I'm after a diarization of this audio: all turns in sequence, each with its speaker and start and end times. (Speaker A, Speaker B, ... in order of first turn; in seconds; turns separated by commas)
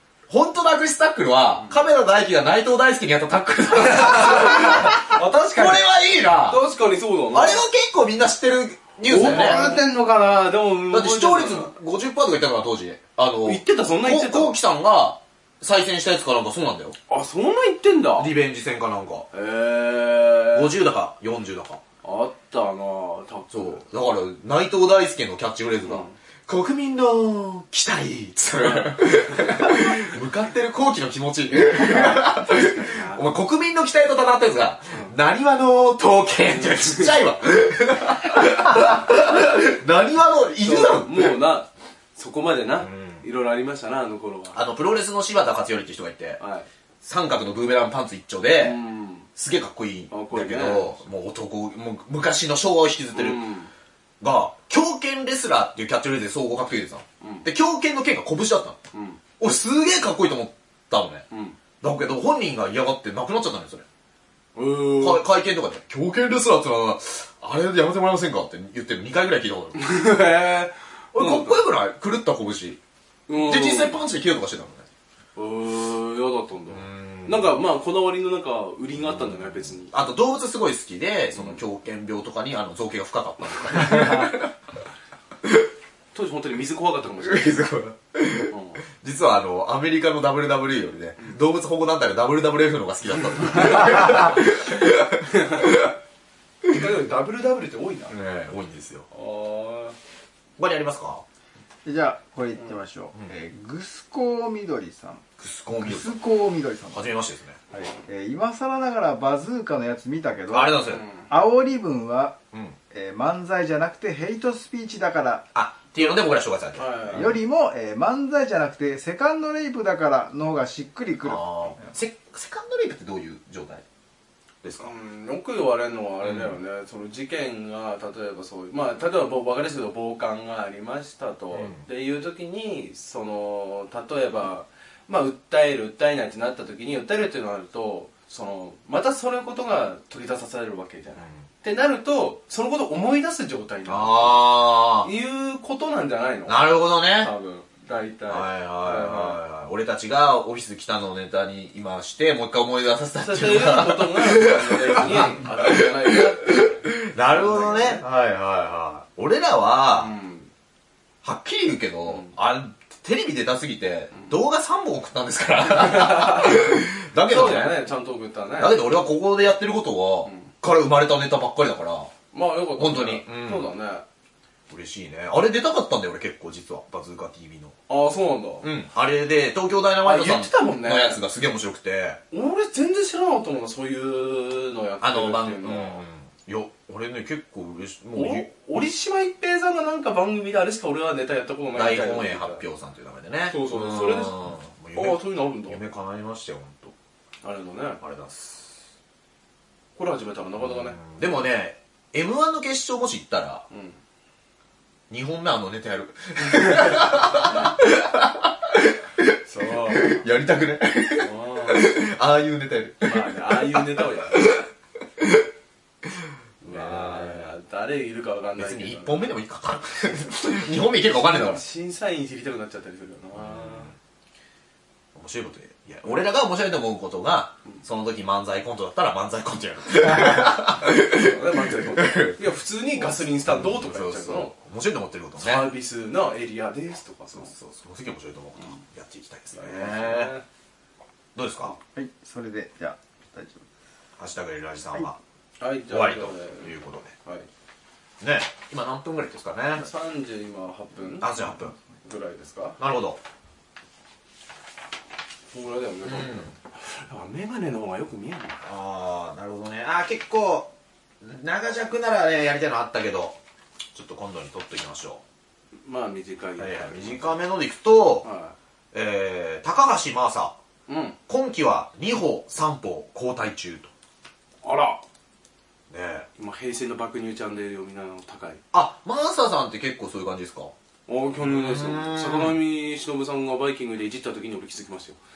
Speaker A: 0.3-6.6, Speaker B: 3.8-5.8, Speaker B: 6.5-7.6, Speaker A: 7.3-9.7, Speaker B: 9.1-11.7, Speaker C: 9.2-9.8, Speaker A: 10.9-16.9, Speaker B: 13.4-14.6, Speaker B: 17.1-18.3, Speaker A: 18.2-19.3, Speaker B: 19.3-20.8, Speaker A: 20.5-21.8, Speaker B: 22.0-23.8, Speaker A: 23.5-41.4, Speaker B: 25.8-26.1, Speaker B: 28.6-29.5, Speaker B: 31.6-33.3, Speaker B: 34.9-35.2, Speaker B: 36.5-37.2, Speaker B: 40.6-44.6, Speaker A: 42.8-43.2, Speaker A: 44.5-46.4, Speaker B: 46.4-46.7, Speaker A: 47.0-48.8, Speaker B: 48.6-49.3, Speaker A: 49.3-53.5, Speaker B: 50.1-51.0, Speaker B: 53.1-53.7, Speaker A: 54.2-58.8, Speaker B: 57.2-57.5, Speaker B: 58.9-59.2, Speaker A: 59.4-61.2, Speaker B: 61.3-61.6, Speaker A: 61.8-63.8, Speaker B: 64.5-65.2, Speaker A: 65.0-69.9, Speaker B: 69.7-71.6, Speaker A: 71.1-72.8, Speaker B: 73.3-74.0, Speaker A: 73.3-74.9, Speaker B: 75.3-79.9, Speaker A: 76.7-77.6, Speaker A: 79.2-84.5, Speaker B: 81.3-81.6, Speaker B: 86.1-87.7, Speaker A: 87.2-95.9, Speaker B: 88.5-88.8, Speaker B: 95.2-95.7, Speaker B: 96.7-98.2, Speaker A: 98.1-99.1, Speaker B: 99.1-100.0, Speaker A: 100.6-101.2, Speaker C: 101.8-105.2, Speaker A: 105.4-106.2, Speaker C: 105.8-107.0, Speaker A: 106.9-107.6, Speaker C: 107.7-112.4, Speaker A: 110.5-111.0, Speaker B: 110.8-111.3, Speaker C: 112.9-115.5, Speaker A: 115.5-117.3, Speaker B: 116.8-117.4, Speaker C: 117.1-121.9, Speaker A: 121.2-123.8, Speaker A: 124.6-124.9, Speaker B: 124.8-149.4, Speaker A: 126.2-126.5, Speaker A: 131.5-131.8, Speaker A: 143.9-145.1, Speaker A: 146.5-147.3, Speaker A: 148.3-160.1, Speaker B: 153.2-158.0, Speaker B: 159.9-160.5, Speaker A: 161.2-167.8, Speaker B: 165.7-166.7, Speaker B: 167.2-168.8, Speaker A: 168.6-172.1, Speaker B: 170.2-170.5, Speaker B: 172.3-174.0, Speaker A: 172.8-173.7, Speaker A: 174.7-177.8, Speaker B: 177.9-178.7, Speaker A: 178.6-182.2, Speaker B: 180.0-181.2, Speaker B: 182.3-186.0, Speaker A: 185.0-188.5, Speaker B: 188.1-192.6, Speaker A: 191.7-196.9, Speaker B: 193.5-195.8, Speaker B: 197.4-198.0, Speaker A: 198.0-198.8, Speaker B: 199.9-201.0, Speaker A: 200.6-203.6, Speaker B: 203.7-204.0, Speaker A: 205.1-209.4, Speaker B: 209.4-210.2, Speaker A: 209.9-213.8, Speaker B: 211.2-211.9, Speaker B: 213.0-214.4, Speaker A: 214.3-214.6, Speaker A: 216.6-217.5, Speaker B: 216.6-219.3, Speaker A: 218.6-221.6, Speaker B: 221.2-223.9, Speaker A: 223.4-223.9, Speaker A: 225.1-232.4, Speaker B: 231.0-234.5, Speaker A: 233.0-235.7, Speaker B: 235.4-237.5, Speaker A: 237.4-240.3, Speaker B: 239.5-240.4, Speaker A: 241.3-241.8, Speaker C: 241.9-243.6, Speaker A: 244.2-245.2, Speaker B: 245.6-247.5, Speaker A: 245.9-247.1, Speaker A: 248.2-249.8, Speaker B: 249.7-251.5, Speaker A: 251.2-251.7, Speaker B: 252.0-252.8, Speaker A: 252.8-253.2, Speaker B: 255.5-258.6, Speaker A: 256.1-256.5, Speaker A: 258.6-263.4, Speaker A: 263.9-265.2, Speaker B: 265.8-267.4, Speaker A: 266.6-268.3, Speaker B: 268.2-268.5, Speaker A: 268.9-270.6, Speaker B: 270.9-271.2, Speaker A: 271.3-273.9, Speaker B: 274.6-275.0, Speaker A: 275.9-276.3, Speaker B: 276.4-278.6, Speaker A: 278.7-280.7, Speaker B: 281.1-285.2, Speaker A: 281.4-282.6